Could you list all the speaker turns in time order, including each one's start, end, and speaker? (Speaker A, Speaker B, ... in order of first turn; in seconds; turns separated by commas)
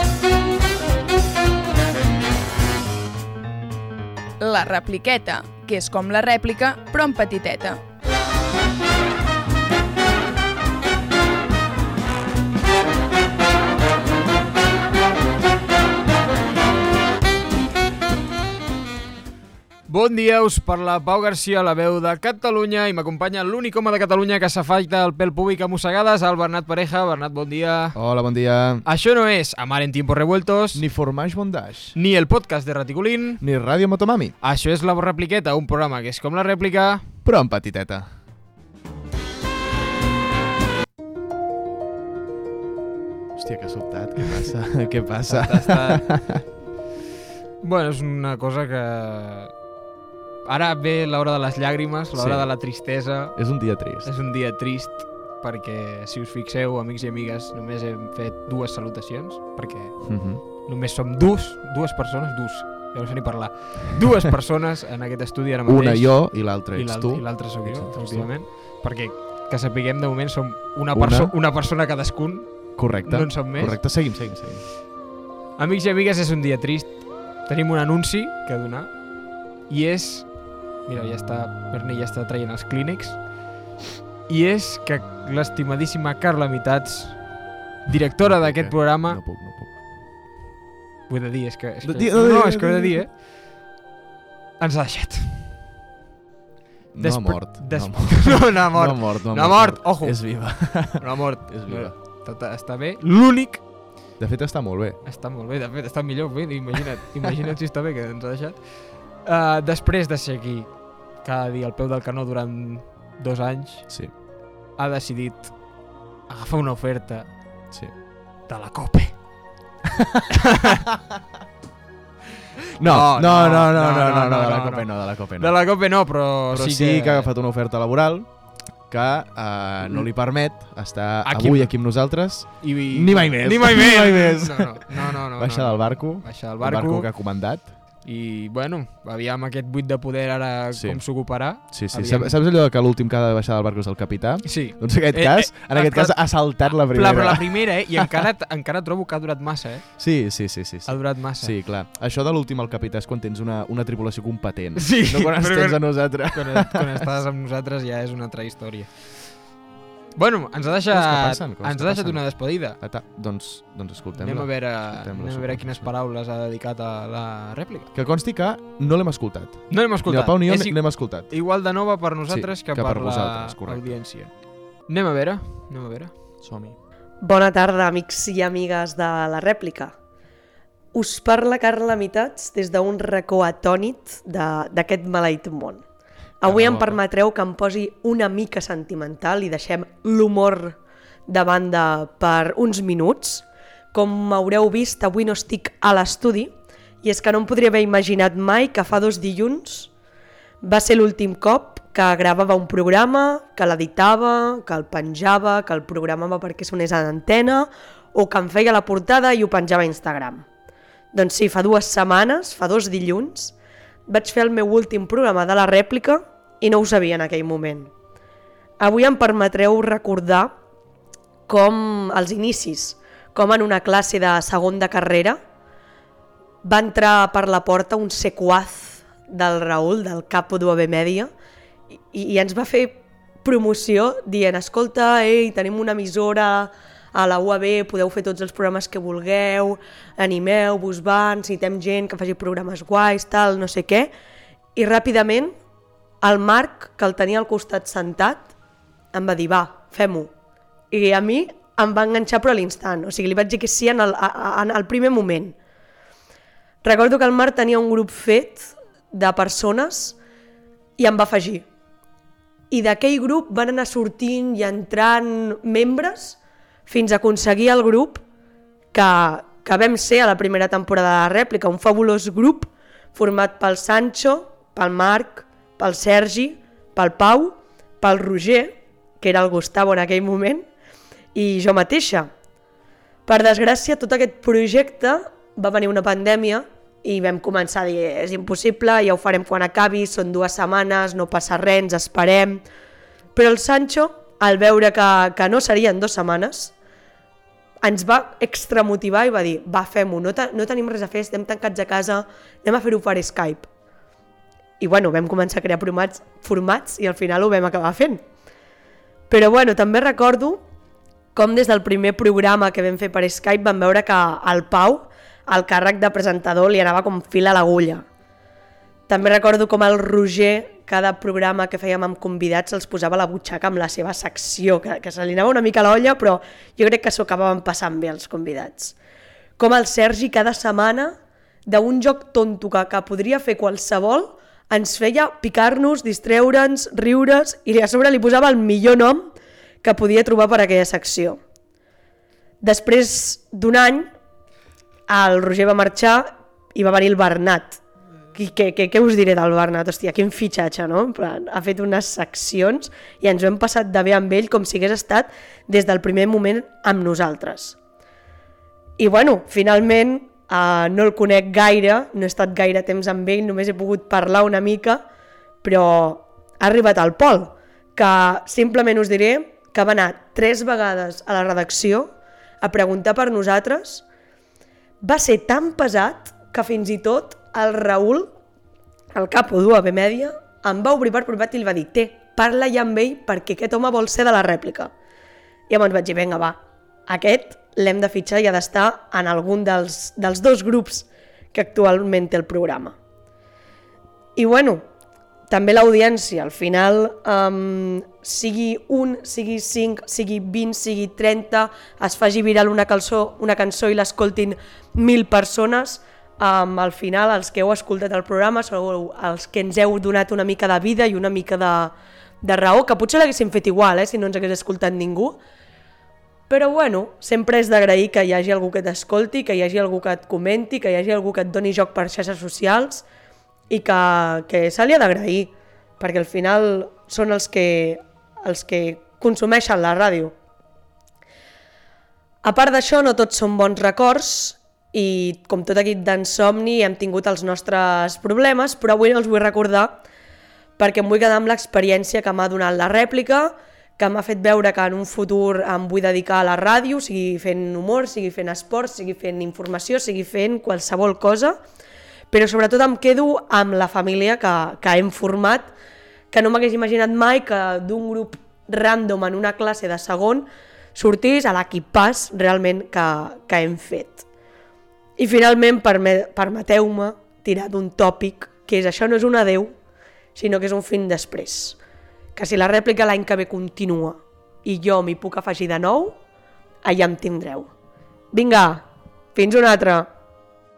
Speaker A: 4.4-7.8, Speaker B: 19.9-28.0, Speaker C: 27.9-28.9, Speaker B: 28.9-30.8, Speaker C: 30.7-32.0, Speaker B: 31.9-33.4, Speaker C: 33.4-34.4, Speaker B: 34.4-37.0, Speaker C: 37.2-38.1, Speaker C: 43.4-46.4, Speaker B: 45.3-46.5, Speaker B: 47.6-49.6, Speaker B: 50.5-74.0, Speaker C: 52.1-54.1, Speaker C: 60.0-60.4, Speaker C: 65.7-68.4, Speaker C: 70.9-71.3, Speaker C: 72.8-74.7, Speaker B: 75.6-83.3, Speaker B: 84.3-89.2, Speaker C: 88.2-89.8, Speaker B: 91.1-93.2, Speaker C: 91.8-93.1, Speaker B: 94.6-95.5, Speaker C: 96.9-102.0, Speaker B: 97.0-103.7, Speaker C: 104.2-105.0, Speaker B: 105.0-117.7, Speaker B: 118.5-119.3, Speaker C: 122.8-137.8, Speaker B: 122.8-127.3, Speaker B: 131.2-137.1, Speaker B: 138.0-142.4, Speaker C: 140.7-148.2, Speaker B: 144.4-150.3, Speaker C: 150.0-157.0, Speaker B: 150.8-151.5, Speaker B: 154.8-159.5, Speaker B: 160.2-162.8, Speaker C: 160.9-165.9, Speaker B: 164.2-167.9, Speaker C: 167.9-171.4, Speaker B: 169.7-176.1, Speaker C: 172.3-174.0, Speaker C: 176.4-176.8, Speaker D: 177.2-179.9, Speaker D: 180.9-185.8, Speaker D: 186.4-196.5, Speaker C: 186.4-187.0, Speaker D: 197.0-199.9, Speaker D: 200.6-210.4, Speaker D: 211.1-213.5, Speaker D: 214.1-217.9, Speaker D: 218.8-220.5, Speaker D: 221.5-225.4, Speaker D: 226.6-231.3, Speaker D: 232.1-244.1, Speaker D: 244.8-245.5, Speaker D: 246.2-248.5, Speaker D: 249.1-250.3, Speaker D: 250.9-255.6, Speaker D: 256.8-260.2, Speaker D: 261.0-261.6, Speaker D: 262.7-268.2, Speaker D: 268.9-280.7, Speaker D: 281.4-282.3, Speaker D: 283.3-292.6, Speaker D: 293.4-296.7, Speaker D: 297.8-303.7, Speaker D: 304.8-308.2, Speaker D: 309.3-310.6, Speaker D: 311.3-318.1, Speaker D: 319.1-328.9, Speaker D: 329.6-339.3, Speaker D: 339.8-341.4, Speaker D: 342.6-344.1, Speaker D: 345.1-347.8, Speaker D: 348.3-357.8, Speaker D: 359.0-365.0, Speaker D: 365.6-372.1, Speaker D: 372.6-374.1, Speaker D: 375.0-378.3, Speaker D: 379.1-384.9, Speaker D: 385.7-393.0, Speaker D: 394.4-394.8, Speaker D: 395.5-415.4, Speaker D: 416.5-423.0, Speaker D: 423.7-430.3, Speaker D: 432.4-440.0, Speaker D: 440.8-451.6, Speaker D: 452.3-455.7, Speaker D: 456.3-464.2, Speaker D: 465.2-469.7, Speaker D: 470.4-471.8, Speaker D: 472.4-476.2, Speaker D: 476.8-477.7, Speaker D: 478.3-478.8, Speaker D: 479.4-480.1